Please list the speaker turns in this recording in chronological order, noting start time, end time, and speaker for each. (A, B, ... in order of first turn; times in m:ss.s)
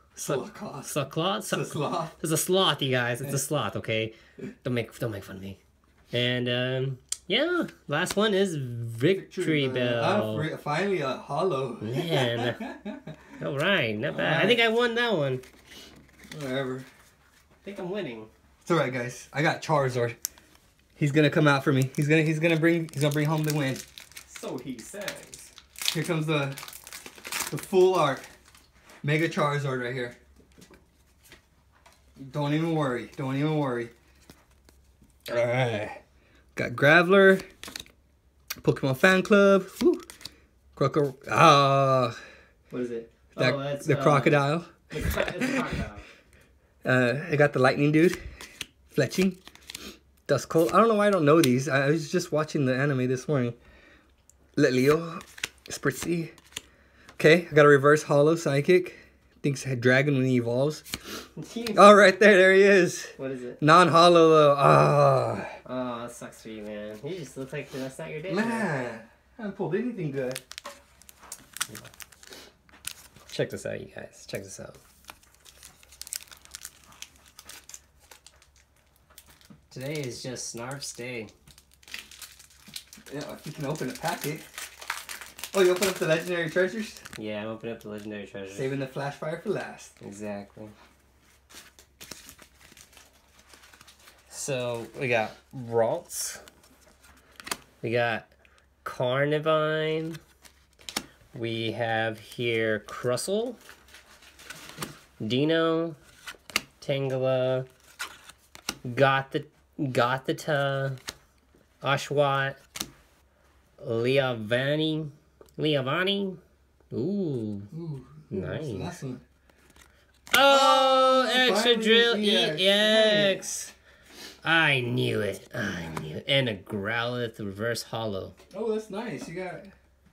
0:00.1-0:02.1 A
0:00.2-0:05.6 B
0:06.1-0:10.5 B
0:09.1-0:13.3 A
0:11.8-0:12.6 B
0:13.4-0:15.4 B
0:14.1-0:14.6 A
0:16.3-0:16.9 A
0:17.6-0:18.3 B
0:18.6-0:20.2 A
0:21.0-0:23.8 A
0:24.2-0:25.5 B
0:25.9-0:26.6 A
0:27.5-0:28.2 A
0:29.0-0:30.2 A
0:32.2-0:33.9 A
0:35.3-0:36.0 A
0:36.6-0:37.4 A
0:38.6-0:40.0 A
0:40.8-0:42.2 A
0:42.7-0:46.0 B
0:43.4-0:45.7 A
0:46.8-0:48.2 A
0:48.9-0:49.4 A
0:50.3-0:53.6 A
0:54.6-0:56.3 A
0:57.2-1:00.9 A
1:01.4-1:02.0 B
1:01.7-1:05.5 A
1:03.2-1:03.6 B
1:05.6-1:08.7 B
1:08.3-1:10.4 A
1:13.3-1:14.8 B
1:19.7-1:21.3 B
1:23.1-1:24.4 A
1:25.5-1:27.0 A
1:27.2-1:28.7 B
1:28.5-1:29.9 A
1:30.0-1:30.7 B
1:34.3-1:36.4 B
1:37.8-1:38.3 B
1:38.8-1:40.2 B
1:41.3-1:43.6 B
1:45.2-1:46.0 B
1:46.8-1:47.7 B
1:48.8-1:51.0 B
1:51.8-1:52.6 B
1:53.8-1:56.4 B
1:56.9-1:57.7 B
1:57.7-1:59.2 A
1:58.3-1:59.0 B
2:00.3-2:03.7 B
2:00.4-2:03.5 A
2:04.4-2:08.3 B
2:08.5-2:09.7 A